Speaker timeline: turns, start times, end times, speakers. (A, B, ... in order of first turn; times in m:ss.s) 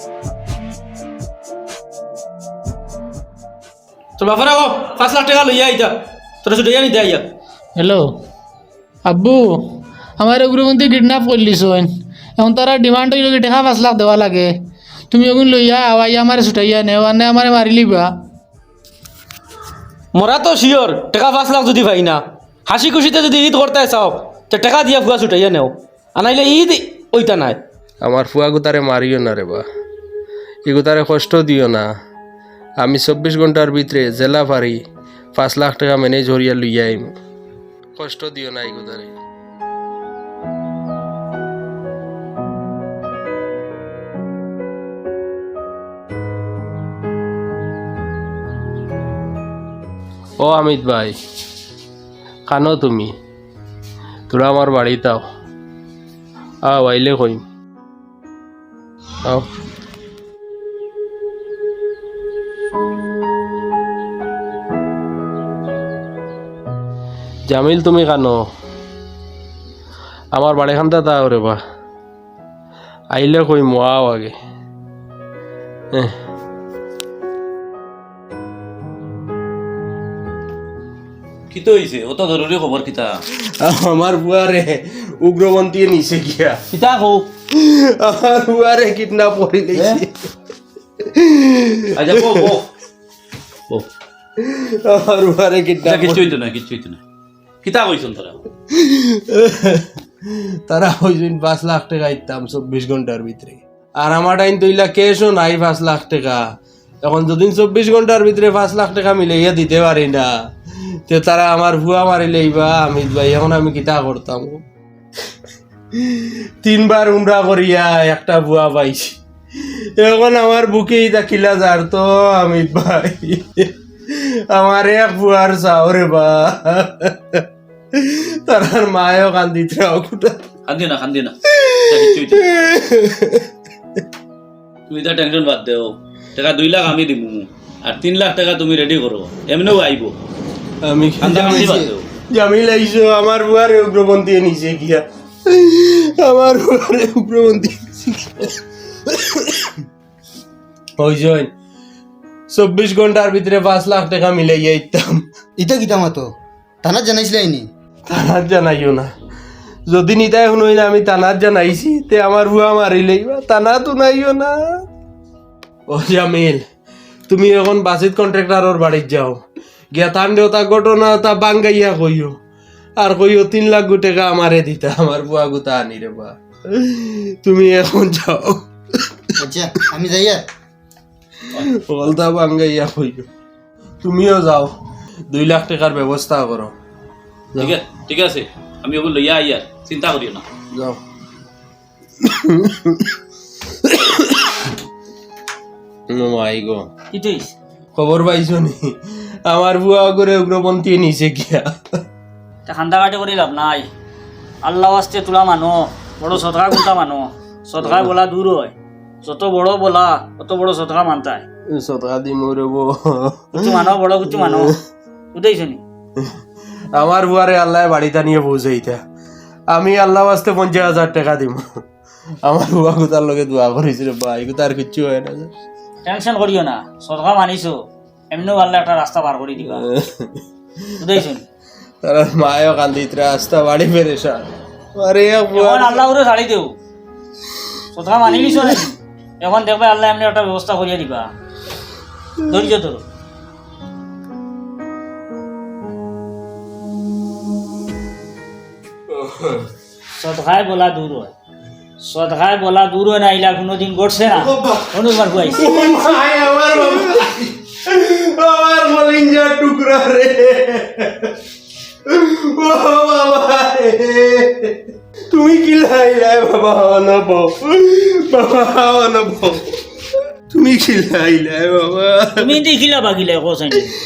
0:04.2-0:07.3 A
0:07.8-0:08.1 B
0:09.1-0:14.5 B
0:15.1-0:18.1 B
0:20.1-0:27.6 A
0:28.0-0:29.7 C
0:30.7-0:31.9 C
0:32.8-0:34.8 C
0:35.4-0:37.2 C
0:38.0-0:39.1 C
0:50.4-0:51.2 C
0:52.5-0:53.2 C
0:54.3-0:55.2 C
0:56.6-0:57.4 C
1:07.5-1:08.5 C
1:10.3-1:11.6 C
1:13.1-1:14.4 C
1:21.5-1:23.2 D
1:23.6-1:26.6 C
1:26.7-1:27.3 A
1:27.5-1:30.1 C
1:31.2-1:32.6 C
1:32.0-1:32.6 D
1:34.4-1:36.4 C
1:35.8-1:37.0 D
1:37.6-1:38.4 D
1:38.7-1:46.4 C
1:47.0-1:50.3 C
1:51.1-1:54.6 C
1:56.1-1:59.2 C
2:00.0-2:07.4 C
2:08.0-2:10.4 C
2:10.7-2:12.5 D
2:11.6-2:13.5 C
2:14.9-2:20.1 D
2:20.8-2:28.6 C
2:21.2-2:22.1 D
2:21.4-2:21.9 E
2:29.1-2:29.7 C
2:31.0-2:31.5 C
2:32.5-2:35.2 C
2:35.6-2:37.7 E
2:38.1-2:39.1 C
2:39.9-2:44.8 C
2:45.9-2:46.6 C
2:47.3-2:49.4 C
2:49.9-2:52.4 C
2:53.0-2:58.6 C
2:59.4-3:00.4 E
3:01.8-3:03.3 C
3:04.0-3:04.7 C
3:05.3-3:06.7 C
3:07.6-3:10.5 D
3:10.7-3:11.0 C
3:12.2-3:12.9 C
3:13.9-3:14.2 C
3:16.1-3:16.9 C
3:17.1-3:17.5 F
3:18.0-3:21.7 C
3:22.7-3:23.9 F
3:24.6-3:31.4 F
3:27.8-3:28.1 C
3:31.7-3:33.6 C
3:33.5-3:34.8 F
3:34.3-3:34.8 C
3:35.3-3:35.8 F
3:36.9-3:39.0 C
3:39.7-3:41.8 C
3:42.4-3:45.5 C
3:46.0-3:49.9 F
3:49.9-3:50.3 C
3:51.0-3:51.4 F
3:52.0-3:56.1 C
3:55.5-3:56.7 F
3:57.9-4:01.3 F
4:02.5-4:03.0 F
4:09.2-4:09.6 C
4:10.2-4:11.3 F
4:12.0-4:15.7 F
4:14.4-4:14.9 C
4:15.5-4:21.3 C
4:22.1-4:24.8 C
4:25.3-4:29.6 C
4:30.5-4:32.6 C
4:32.4-4:33.9 F